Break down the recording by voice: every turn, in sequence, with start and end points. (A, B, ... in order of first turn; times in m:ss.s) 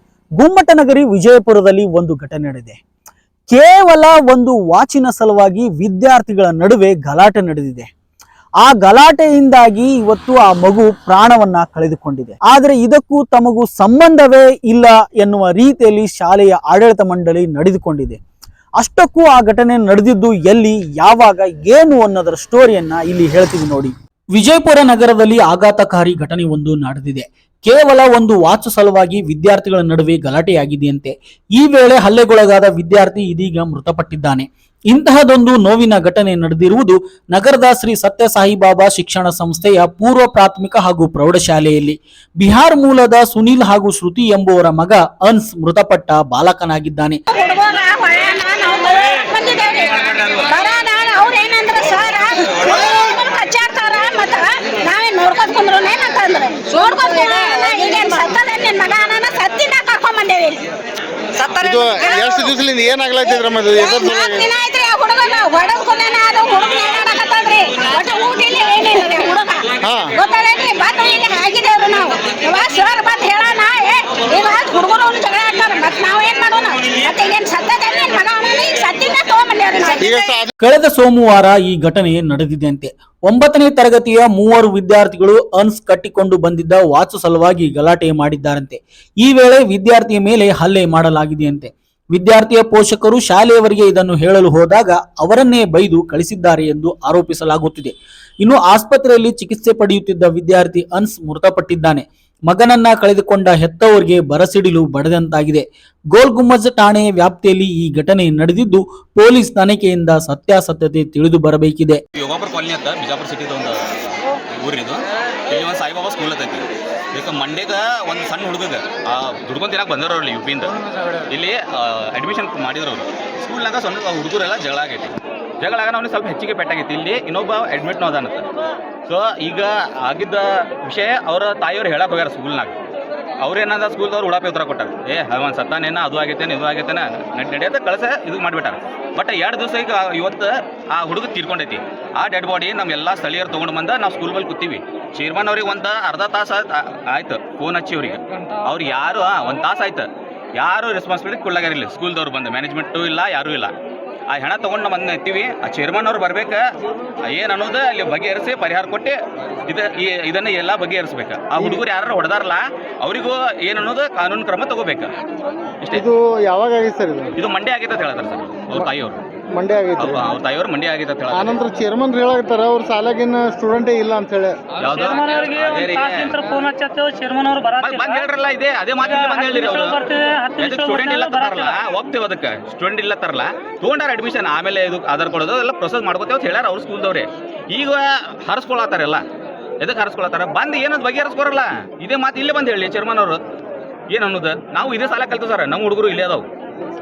0:00.4-0:02.8 A
0:03.5-0:07.9 A
0:08.6-0:18.2 A
0:18.8-0:47.2 A
0:47.3-1:00.6 B
1:01.4-1:02.6 B
1:01.6-1:04.5 C
1:03.2-1:20.4 B
1:09.8-1:10.2 C
1:20.0-1:20.5 C
1:20.6-1:52.0 A
1:52.1-2:00.8 D
2:01.3-2:08.4 D
2:09.1-2:12.8 D
2:13.4-2:33.7 D
2:34.3-2:36.6 D
2:37.3-2:39.2 D
2:39.7-2:45.1 D
2:45.9-2:47.3 C
2:47.4-2:49.2 D
2:49.5-2:50.4 C
2:50.0-2:51.6 D
2:51.3-2:54.6 C
2:54.8-2:56.3 D
2:54.8-2:58.3 E
2:57.8-3:00.0 D
2:59.0-3:01.8 E
3:00.6-3:09.2 D
3:09.8-3:13.4 D
3:14.1-3:16.4 D